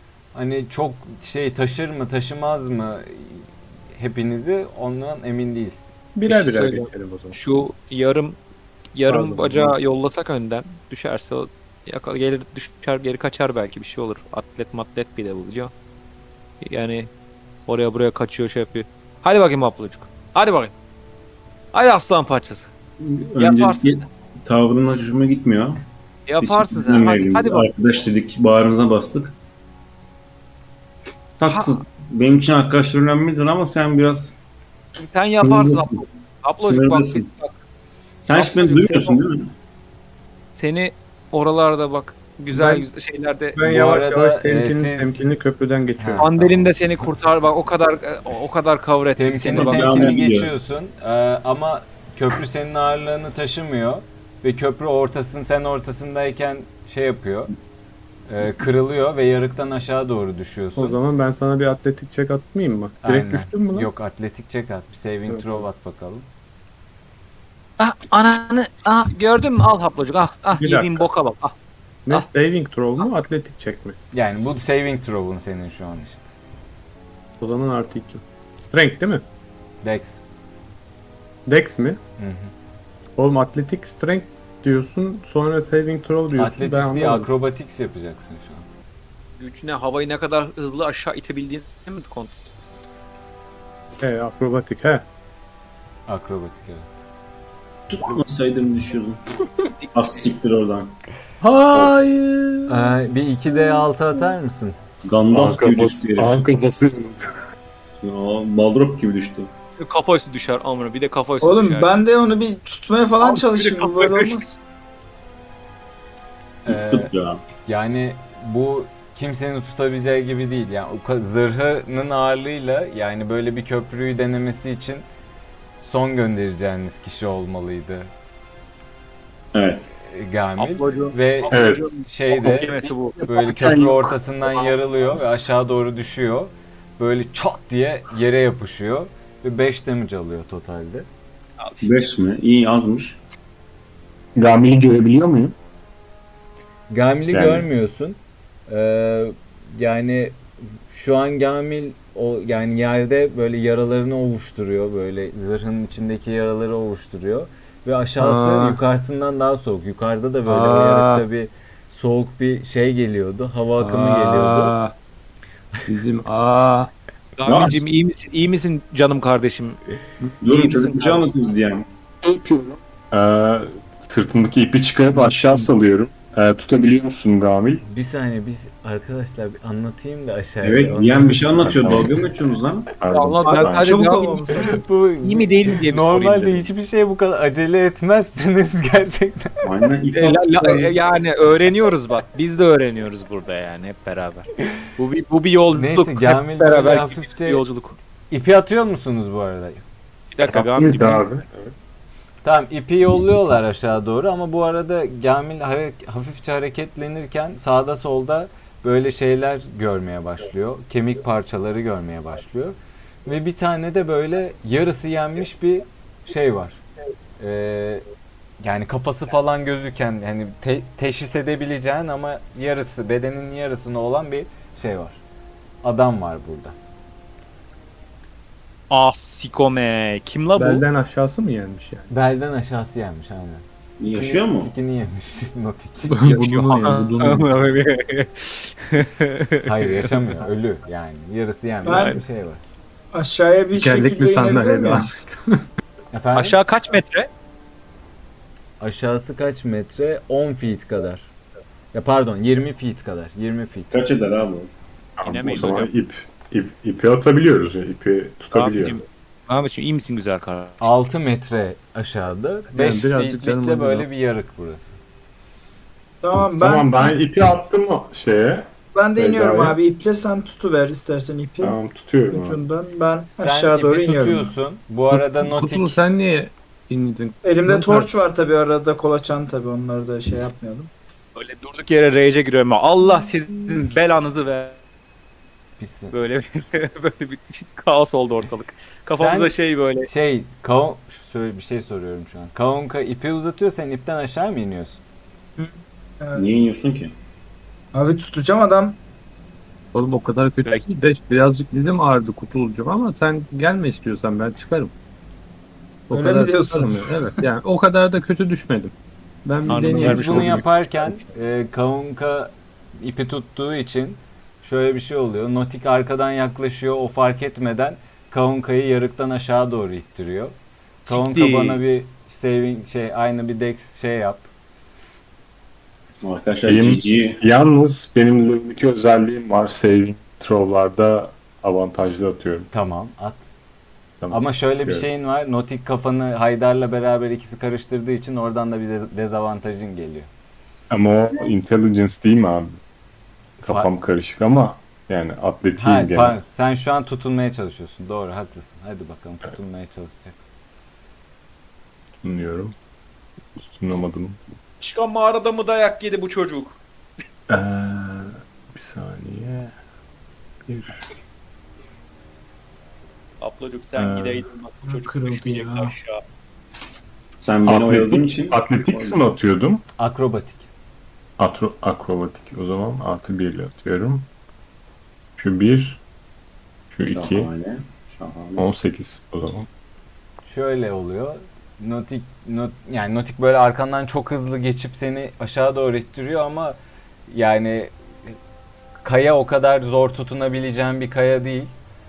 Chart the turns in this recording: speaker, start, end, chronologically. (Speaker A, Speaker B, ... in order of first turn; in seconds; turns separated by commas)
Speaker A: 0.3-5.9, Speaker B: 6.2-7.4, Speaker C: 6.3-8.4, Speaker C: 8.9-15.7, Speaker B: 9.1-9.8, Speaker C: 16.6-17.1, Speaker C: 17.7-20.7, Speaker C: 21.7-22.7, Speaker D: 23.0-25.9, Speaker C: 23.4-24.1, Speaker C: 26.3-27.7, Speaker D: 26.4-29.4, Speaker D: 31.4-34.4, Speaker C: 31.4-31.8, Speaker C: 35.0-37.6, Speaker D: 35.3-36.0, Speaker D: 36.6-37.3, Speaker D: 38.2-39.5, Speaker C: 38.3-39.2, Speaker C: 40.5-43.6, Speaker B: 42.5-42.9, Speaker B: 43.5-46.3, Speaker A: 43.6-45.3, Speaker A: 46.0-46.8, Speaker C: 46.2-50.1, Speaker A: 49.2-57.5, Speaker D: 49.5-50.5, Speaker A: 58.3-61.0, Speaker B: 60.8-63.9, Speaker A: 63.0-66.3, Speaker B: 65.3-65.6, Speaker C: 67.8-71.5, Speaker B: 70.5-71.1, Speaker B: 72.1-74.0, Speaker A: 74.1-76.2, Speaker B: 77.4-79.2, Speaker A: 79.8-80.2, Speaker B: 81.5-82.0, Speaker A: 82.2-82.5, Speaker B: 83.2-87.3, Speaker A: 86.3-88.7, Speaker C: 89.4-92.4, Speaker B: 94.0-95.0, Speaker A: 96.1-96.9, Speaker D: 97.9-99.2, Speaker D: 99.9-101.0, Speaker B: 101.4-103.0, Speaker A: 102.7-104.8, Speaker D: 105.0-106.5, Speaker E: 105.3-107.3, Speaker D: 108.0-109.5, Speaker C: 109.8-111.9, Speaker F: 111.4-114.6, Speaker C: 113.2-114.4, Speaker A: 116.7-117.1, Speaker D: 116.7-117.4, Speaker A: 117.7-125.0, Speaker A: 125.8-128.1, Speaker D: 129.5-129.9, Speaker A: 130.1-141.1, Speaker C: 130.6-133.2, Speaker E: 131.5-132.0, Speaker E: 133.2-134.2, Speaker C: 141.6-142.0, Speaker D: 141.8-143.2, Speaker E: 144.4-145.5, Speaker A: 146.9-164.7, Speaker E: 147.3-147.7, Speaker B: 158.2-158.8, Speaker B: 160.5-161.3, Speaker B: 163.8-164.9, Speaker B: 165.9-166.9, Speaker C: 167.4-169.8, Speaker D: 167.5-167.8, Speaker D: 170.4-171.9, Speaker C: 170.4-171.6, Speaker E: 172.2-177.8, Speaker A: 177.8-181.4, Speaker D: 180.6-182.9, Speaker E: 181.4-182.2, Speaker E: 183.0-184.1, Speaker C: 183.1-184.6, Speaker F: 183.5-184.8, Speaker A: 184.5-189.5, Speaker C: 185.2-186.7, Speaker D: 189.6-190.9, Speaker C: 190.1-198.0, Speaker A: 195.8-197.6, Speaker A: 198.3-199.8, Speaker C: 200.3-201.3, Speaker E: 200.5-201.7, Speaker A: 202.4-216.8, Speaker A: 217.4-218.0, Speaker A: 218.6-225.2, Speaker A: 225.8-226.8, Speaker C: 228.9-230.9, Speaker B: 230.6-232.1, Speaker A: 232.1-236.2, Speaker D: 234.0-234.7, Speaker B: 236.0-237.5, Speaker C: 236.2-240.2, Speaker A: 239.7-242.6, Speaker F: 241.8-242.2, Speaker C: 241.8-242.2, Speaker F: 243.1-245.1, Speaker B: 243.8-245.6, Speaker A: 246.1-246.6, Speaker C: 246.3-247.3, Speaker A: 248.8-251.3, Speaker A: 251.9-254.0, Speaker D: 253.9-254.7, Speaker E: 255.2-259.0, Speaker C: 255.2-255.9, Speaker C: 258.5-260.9, Speaker A: 260.8-264.9, Speaker B: 262.7-264.1, Speaker F: 266.2-267.2, Speaker E: 266.4-269.8, Speaker F: 268.9-271.8, Speaker E: 271.6-272.6, Speaker F: 272.3-274.5, Speaker A: 273.4-276.0, Speaker B: 275.1-278.1, Speaker F: 277.4-280.9, Speaker C: 281.4-284.8, Speaker A: 285.8-286.2, Speaker C: 286.1-290.1, Speaker A: 289.1-289.5, Speaker A: 290.1-295.0, Speaker F: 295.6-296.6, Speaker D: 296.4-297.1, Speaker F: 297.9-299.0, Speaker B: 299.9-304.9, Speaker B: 306.1-310.7, Speaker F: 306.1-307.4, Speaker C: 309.7-310.9, Speaker A: 309.8-320.6, Speaker A: 321.1-324.5, Speaker C: 321.5-321.8, Speaker D: 326.2-327.4, Speaker E: 326.6-332.7, Speaker A: 332.7-333.4, Speaker E: 334.2-335.1, Speaker A: 334.3-340.3, Speaker E: 340.9-342.8, Speaker E: 343.6-346.4, Speaker A: 343.6-343.9, Speaker A: 345.8-350.5, Speaker E: 352.2-352.7, Speaker E: 353.6-354.4, Speaker C: 354.8-356.8, Speaker E: 357.5-359.8, Speaker E: 360.7-361.0, Speaker C: 363.4-366.2, Speaker E: 364.0-364.4, Speaker F: 364.8-365.9, Speaker D: 367.4-369.2, Speaker E: 367.7-369.8, Speaker A: 370.0-370.7, Speaker E: 371.4-374.3, Speaker E: 375.4-376.0, Speaker E: 376.9-377.5, Speaker D: 377.1-378.7, Speaker E: 378.6-379.7, Speaker A: 380.5-386.8, Speaker A: 387.3-388.3, Speaker A: 389.0-391.7